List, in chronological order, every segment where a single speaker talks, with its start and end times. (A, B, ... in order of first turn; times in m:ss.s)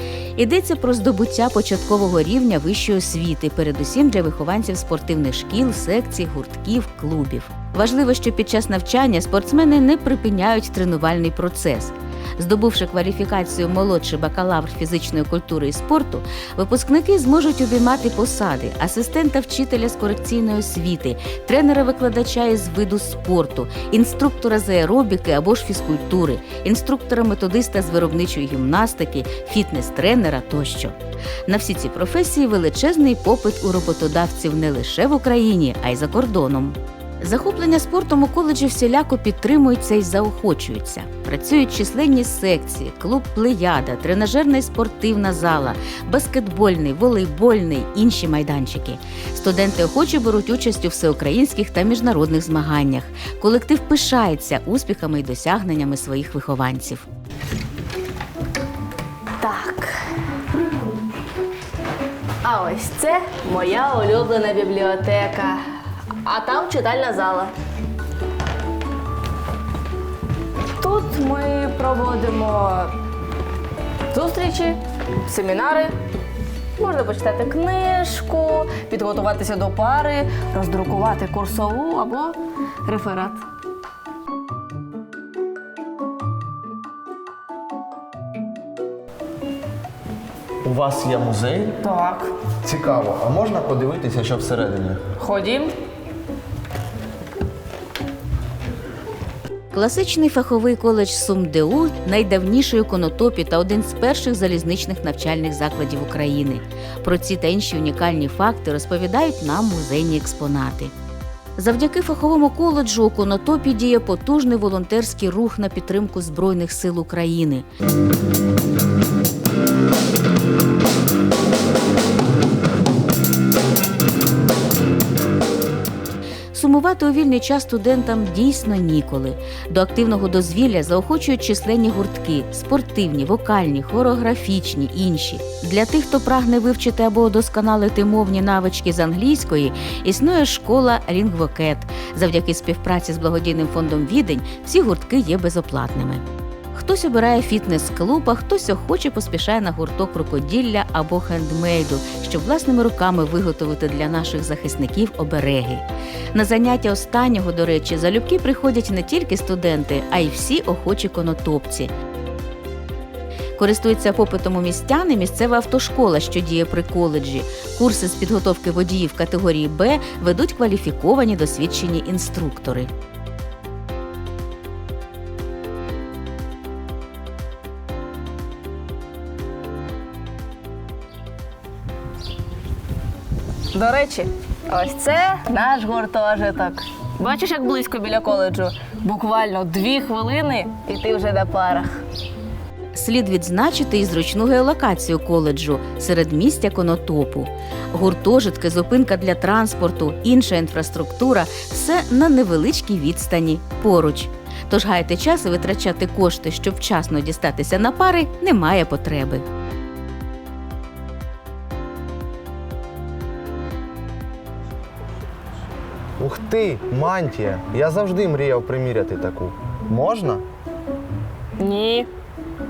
0:00.4-0:57.0 A
0:59.4-1:00.0 B
1:02.4-1:05.6 B
1:06.2-1:07.5 B
1:10.7-1:12.9 B
1:14.1-1:15.9 B
1:16.8-1:23.4 B
1:30.6-1:31.8 C
1:31.8-1:32.3 B
1:32.6-1:35.0 C
1:35.2-1:35.7 B
1:39.7-1:50.9 A
1:51.6-1:57.6 A
2:06.5-2:41.9 A
2:43.6-2:52.9 A
3:03.7-3:12.0 B
3:12.9-3:29.5 A
3:36.2-3:40.4 C
3:41.6-3:42.1 B